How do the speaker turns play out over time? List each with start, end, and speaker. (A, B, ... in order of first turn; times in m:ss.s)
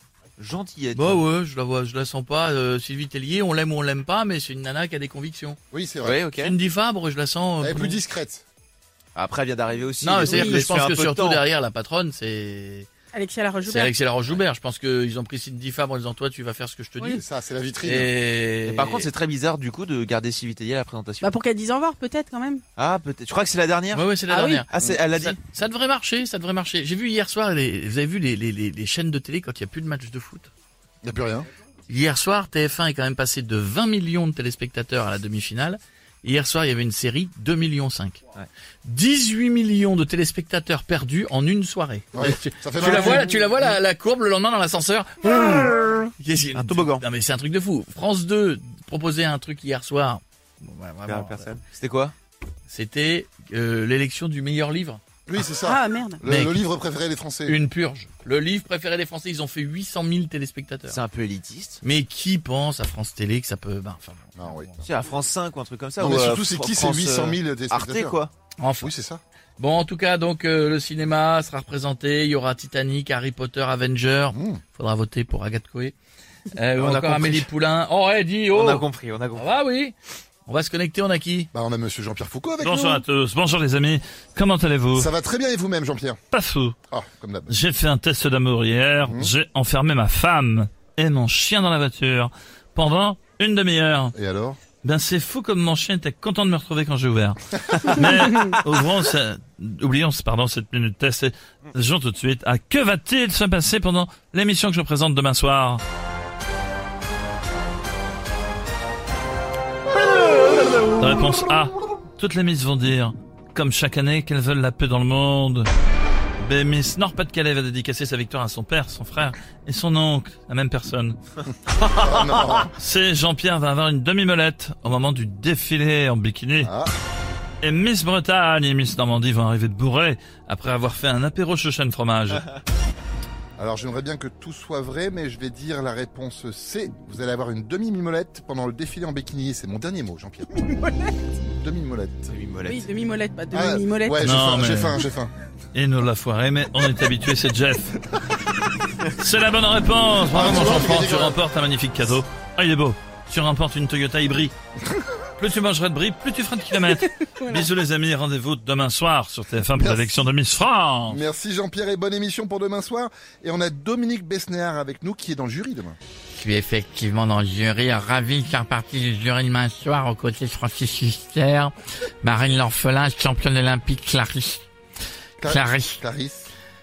0:00.4-0:01.2 A
0:01.0-0:05.6 B
0:05.7-0:06.2 C
0:06.0-0:06.5 A
0:06.4-0:08.0 B
0:07.6-0:08.4 C
0:09.1-0:11.4 A
0:10.0-0:12.9 B
0:10.2-0:10.7 D
0:13.1-0:13.9 D
0:13.7-0:17.2 B
0:17.1-0:18.1 C
0:17.8-0:19.1 B
0:18.6-0:21.4 A
0:21.2-0:22.6 D
0:22.8-0:25.4 A
0:23.9-0:30.5 B
0:31.0-0:31.5 C
0:31.9-0:38.2 B
0:38.8-0:51.5 B
0:42.1-0:43.3 C
0:42.8-0:43.4 A
0:46.5-0:47.0 A
0:51.0-0:52.1 A
0:52.7-0:55.0 B
0:55.3-0:57.6 C
0:55.6-0:56.2 D
0:56.2-0:56.6 B
0:57.4-1:01.0 B
1:00.9-1:01.8 A
1:01.8-1:04.9 B
1:04.4-1:04.7 C
1:04.8-1:08.3 A
1:06.0-1:08.2 C
1:08.6-1:08.9 B
1:08.8-1:09.2 C
1:09.6-1:15.9 B
1:14.3-1:14.6 C
1:16.6-1:19.9 B
1:16.8-1:17.4 A
1:18.5-1:19.5 A
1:20.4-1:21.5 B
1:21.5-1:23.0 C
1:22.6-1:25.1 E
1:24.9-1:26.2 C
1:26.3-1:26.8 E
1:26.9-1:27.6 C
1:27.5-1:34.1 E
1:29.0-1:29.3 C
1:34.1-1:34.6 C
1:34.8-1:45.8 E
1:50.2-1:55.7 E
1:56.4-2:01.2 E
2:01.7-2:06.7 E
2:02.0-2:02.7 C
2:06.6-2:06.9 C
2:07.6-2:12.4 E
2:13.6-2:20.7 C
2:21.4-2:22.3 C
2:22.3-2:22.9 A
2:22.6-2:24.2 D
2:23.5-2:25.3 C
2:24.2-2:25.0 E
2:25.7-2:28.0 E
2:29.1-2:34.5 E
2:30.3-2:31.4 C
2:35.4-2:41.2 E
2:39.8-2:40.2 C
2:41.1-2:46.0 C
2:46.3-2:51.7 B
2:52.2-2:54.6 B
2:55.4-2:56.5 C
2:55.4-2:56.0 B